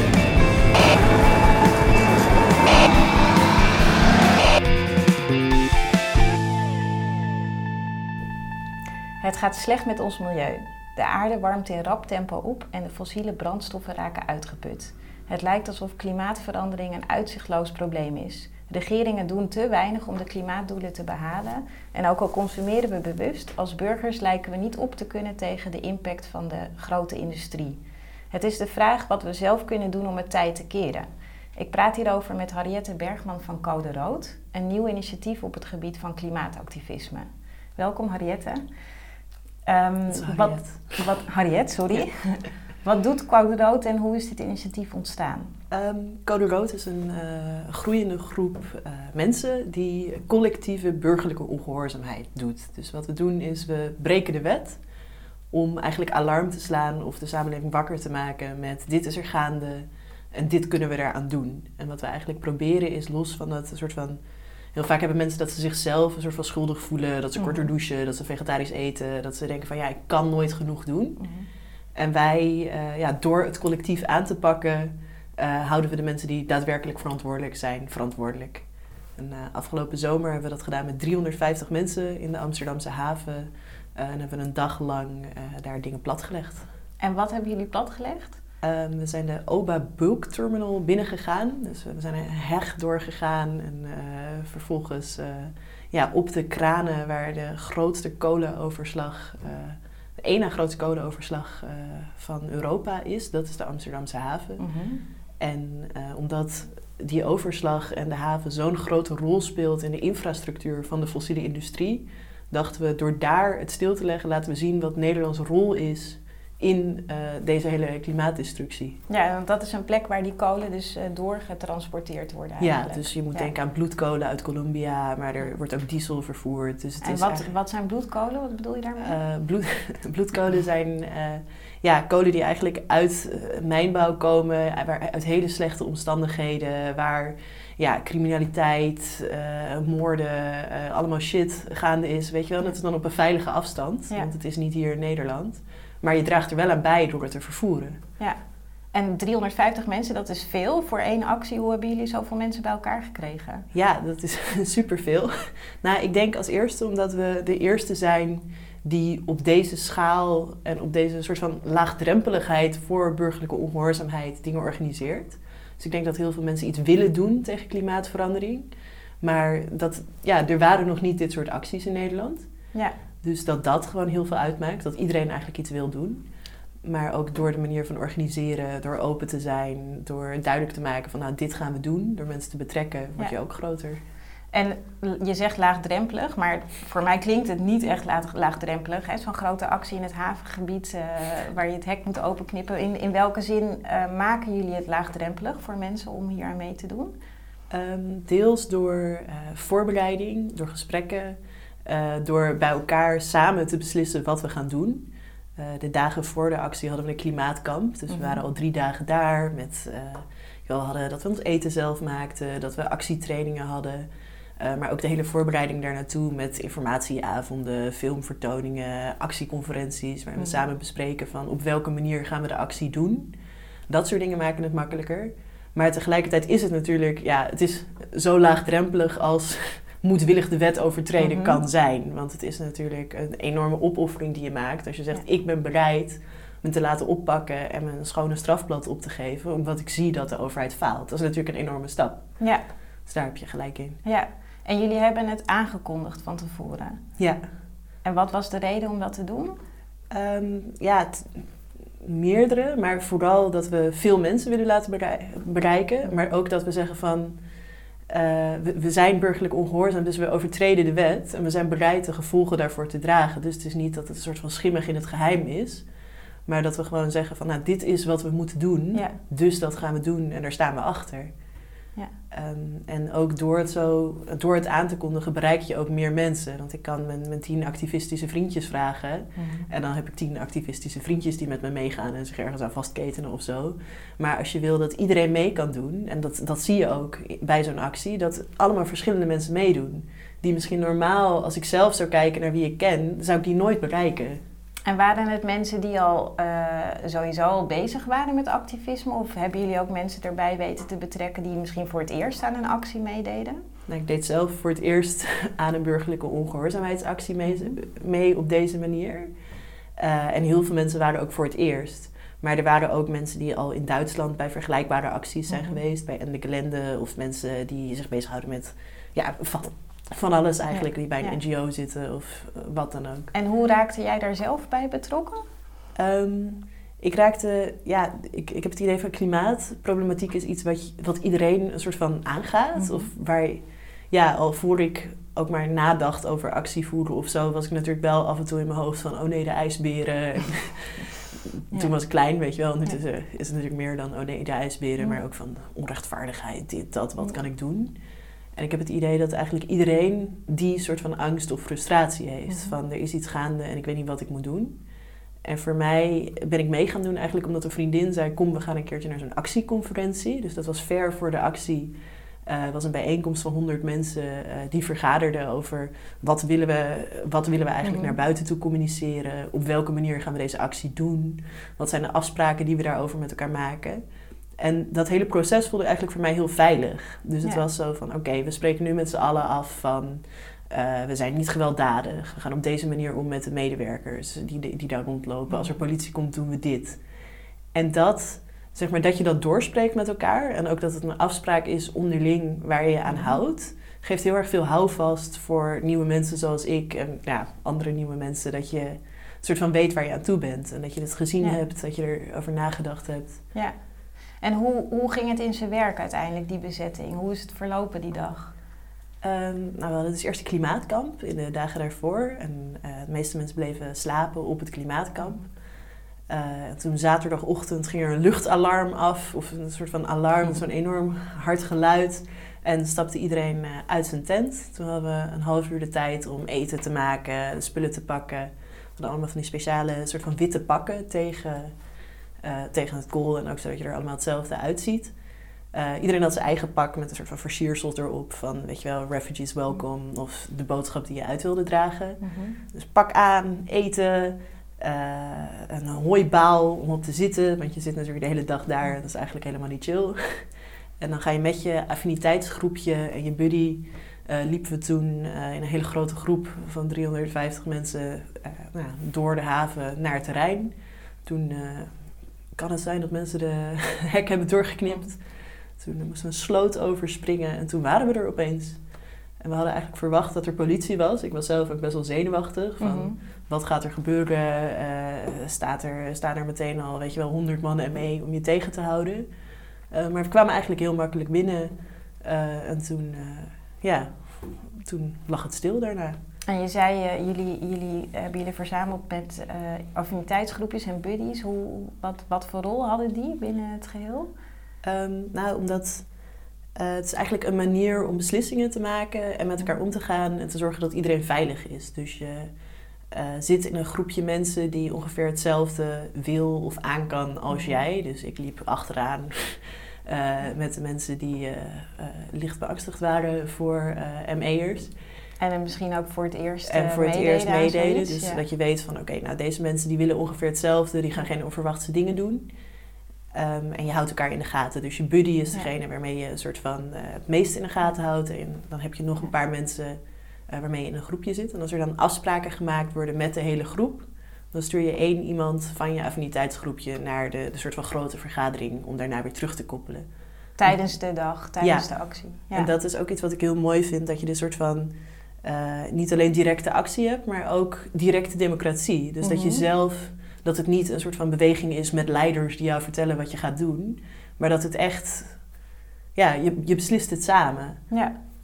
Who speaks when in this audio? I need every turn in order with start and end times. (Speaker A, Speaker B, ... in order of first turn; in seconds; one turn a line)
Speaker A: 9.2-27.8
Speaker A: 28.3-38.6
Speaker A: 39.6-45.5
Speaker B: 40.1-41.1
Speaker B: 45.7-54.8
Speaker B: 55.5-64.2
Speaker B: 64.7-71.2
Speaker A: 67.4-67.7
Speaker A: 71.2-71.5
Speaker B: 71.9-78.6
Speaker B: 79.2-86.6
Speaker A: 87.0-88.4
Speaker B: 88.6-104.7
Speaker A: 104.6-105.0
Speaker B: 105.4-119.0
Speaker A: 119.1-123.5
Speaker B: 122.6-127.5
Speaker A: 127.0-129.2
Speaker B: 129.0-148.0
Speaker A: 148.2-153.7
Speaker B: 153.7-168.7
Speaker B: 169.2-176.3
Speaker B: 176.8-184.0
Speaker A: 184.5-197.1
Speaker B: 197.7-214.1
Speaker A: 208.1-208.4
Speaker B: 214.6-223.3
Speaker B: 223.9-242.4
Speaker A: 231.2-231.6
Speaker A: 242.4-242.7
Speaker B: 243.0-244.0
Speaker A: 244.0-247.0
Speaker A: 248.0-249.6
Speaker B: 250.1-257.4
Speaker B: 258.1-265.9
Speaker B: 266.4-271.4
Speaker B: 272.3-294.4
Speaker A: 279.4-279.7
Speaker A: 294.9-303.6
Speaker B: 303.9-309.3
Speaker A: 307.4-307.8
Speaker B: 310.0-323.3
Speaker A: 315.5-315.8
Speaker A: 320.7-321.4
Speaker A: 323.3-325.4
Speaker B: 325.9-348.0
Speaker A: 332.7-333.1
Speaker A: 341.7-342.0
Speaker B: 348.5-354.8
Speaker A: 352.5-352.7
Speaker B: 355.4-387.0
Speaker A: 367.8-368.1
Speaker A: 385.5-385.8
Speaker B: 387.7-403.5
Speaker A: 393.0-393.4
Speaker A: 403.5-408.6
Speaker B: 409.2-415.5
Speaker A: 415.2-415.4
Speaker B: 416.3-431.8
Speaker B: 432.4-435.1
Speaker B: 435.7-442.2
Speaker A: 442.2-442.6
Speaker B: 442.7-468.9
Speaker B: 469.4-479.2
Speaker A: 472.8-473.2
Speaker B: 479.9-486.1
Speaker A: 486.5-494.3
Speaker B: 494.8-496.1
Speaker B: 496.8-502.5
Speaker B: 503.1-514.9
Speaker A: 507.5-507.8
Speaker A: 515.4-518.4
Speaker B: 516.6-522.5
Speaker B: 523.3-540.0
Speaker A: 540.6-542.7
Speaker B: 540.6-540.9
Speaker B: 541.6-555.5
Speaker A: 549.2-549.6
Speaker B: 556.1-557.8